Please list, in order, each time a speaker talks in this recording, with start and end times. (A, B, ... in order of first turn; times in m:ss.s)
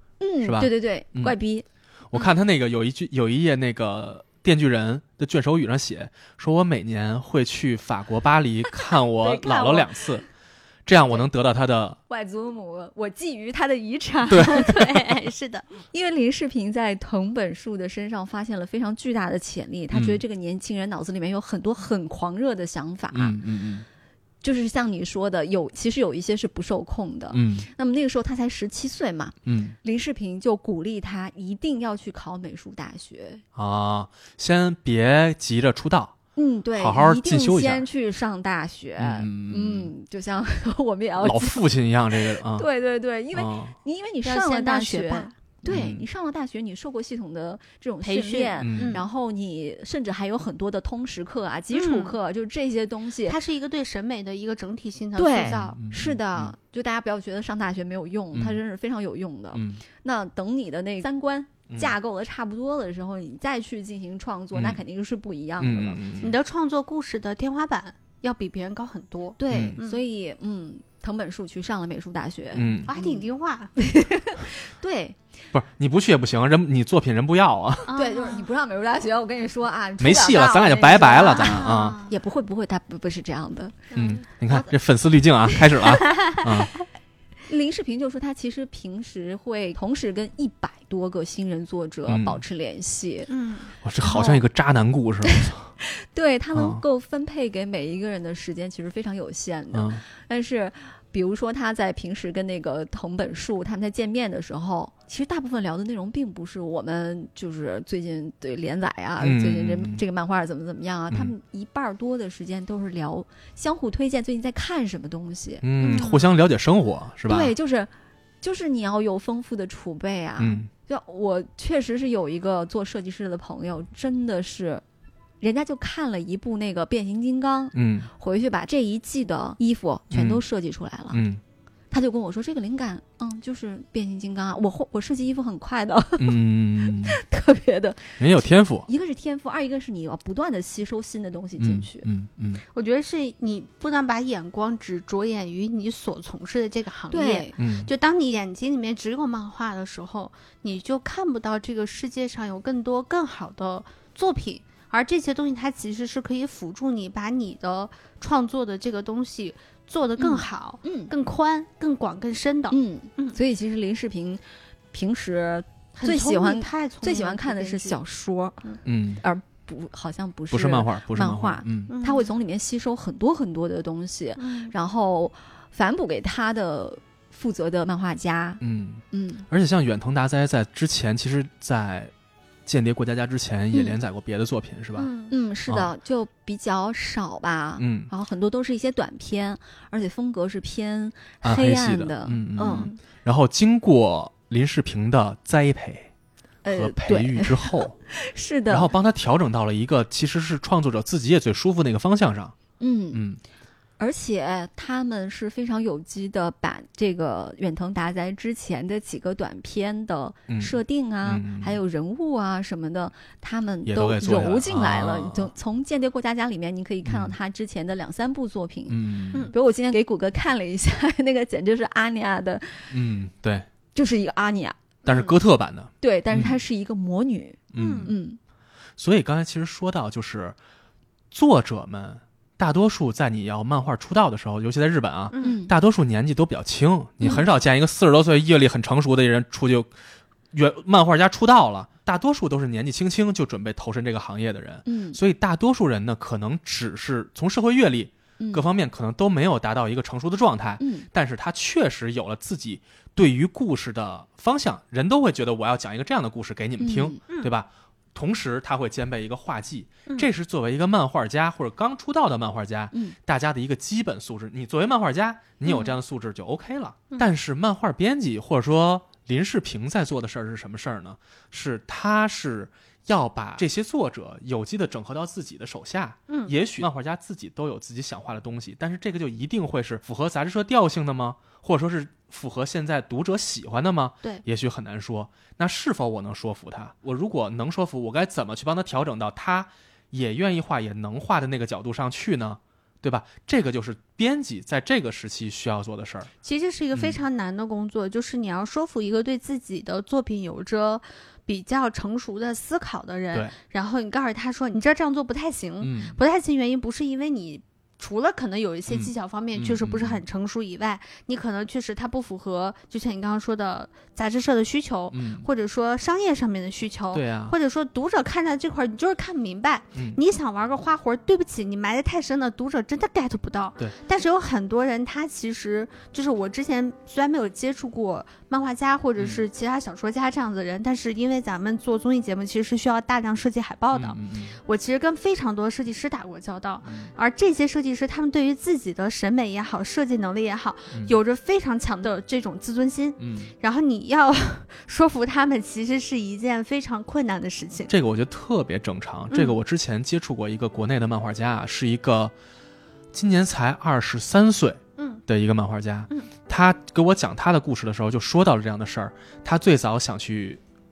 0:00.2-0:01.7 A
0:00.4-0:01.4 B
0:02.1-0:10.2 B
0:09.2-0:09.9 A
0:10.9-0:12.0 B
0:12.1-0:15.1 A
0:14.3-0:14.7 B
0:14.3-0:15.7 C
0:15.9-0:23.4 A
0:19.9-0:20.2 B
0:23.1-0:23.9 B
0:24.4-0:33.4 A
0:27.3-0:27.7 B
0:29.5-0:29.8 B
0:33.6-0:36.2 B
0:36.4-0:41.6 A
0:36.8-0:37.9 B
0:39.0-0:39.9 B
0:41.2-0:42.7 B
0:42.3-0:53.4 A
0:43.3-0:43.8 B
0:44.2-0:45.4 C
0:45.7-0:46.0 B
0:48.0-0:49.0 C
0:48.6-0:49.0 B
0:51.7-0:52.2 C
0:53.3-0:55.8 C
0:55.2-1:06.0 A
0:55.5-0:56.6 B
0:58.3-0:58.6 B
0:59.5-0:59.8 B
1:01.7-1:02.0 B
1:04.5-1:04.8 B
1:05.6-1:06.4 B
1:06.2-1:10.0 C
1:09.4-1:13.2 A
1:09.5-1:09.8 B
1:12.5-1:12.9 B
1:12.9-1:13.7 C
1:13.8-1:15.2 A
1:15.5-1:17.9 B
1:17.9-1:18.5 C
1:17.9-1:23.9 A
1:20.0-1:22.0 B
1:21.4-1:22.1 C
1:23.9-1:24.2 C
1:24.0-1:26.7 B
1:26.0-1:26.3 C
1:27.5-1:33.3 A
1:32.1-1:32.4 B
1:33.3-1:33.7 C
1:33.8-1:35.7 B
1:34.0-1:34.4 A
1:35.3-1:55.7 A
1:36.5-1:36.8 B
1:39.7-1:40.0 B
1:49.2-1:50.0 B
1:55.6-1:57.5 B
1:55.8-1:56.2 C
1:57.3-2:04.8 A
2:00.4-2:00.7 B
2:05.4-2:11.2 A
2:07.7-2:08.1 B
2:10.1-2:10.4 B
2:11.1-2:11.4 B
2:11.9-2:22.1 A
2:16.2-2:17.2 B
2:18.2-2:18.9 B
2:21.6-2:22.6 B
2:22.7-2:43.4 C
2:27.1-2:27.5 A
2:27.6-2:27.9 B
2:40.2-2:41.1 A
2:42.7-2:58.6 A
2:46.0-2:48.0 C
2:48.8-2:49.2 B
2:50.5-2:51.9 B
2:51.9-2:52.3 C
2:54.4-2:54.7 C
2:58.6-3:02.1 B
2:59.1-2:59.5 A
3:02.7-3:05.1 B
3:03.7-3:04.0 A
3:05.0-3:05.3 C
3:05.3-3:12.9 A
3:07.8-3:08.1 B
3:11.4-3:16.1 B
3:12.6-3:13.0 C
3:16.6-3:18.9 A
3:16.7-3:18.0 B
3:18.7-3:22.6 B
3:22.8-3:23.2 A
3:23.1-3:23.4 B
3:24.0-3:43.0 A
3:30.5-3:31.8 B
3:33.8-3:35.5 B
3:37.0-3:37.4 B
3:38.9-3:39.5 B
3:42.9-3:43.7 B
3:43.9-3:44.8 A
3:45.0-3:45.4 C
3:45.1-3:46.6 B
3:46.0-3:48.4 A
3:47.7-3:48.2 B
3:47.8-3:48.1 C
3:49.0-3:50.6 B
3:51.3-3:59.9 B
3:55.3-3:55.6 C
3:55.4-3:55.7 A
4:00.5-4:56.3 B
4:04.9-4:05.2 A
4:08.4-4:08.7 A
4:10.8-4:11.1 A
4:16.8-4:17.2 A
4:25.6-4:26.0 C
4:36.3-4:36.5 C
4:56.4-5:47.9 C
4:56.9-4:57.2 B
5:05.8-5:06.2 B
5:08.9-5:10.2 B
5:15.1-5:15.5 B
5:17.1-5:17.5 B
5:29.2-5:29.4 B
5:33.9-5:34.6 B
5:36.8-5:37.1 B
5:40.9-5:41.2 B
5:43.2-5:43.5 B
5:47.9-5:52.3 B
5:49.3-5:49.6 C
5:53.1-6:00.6 B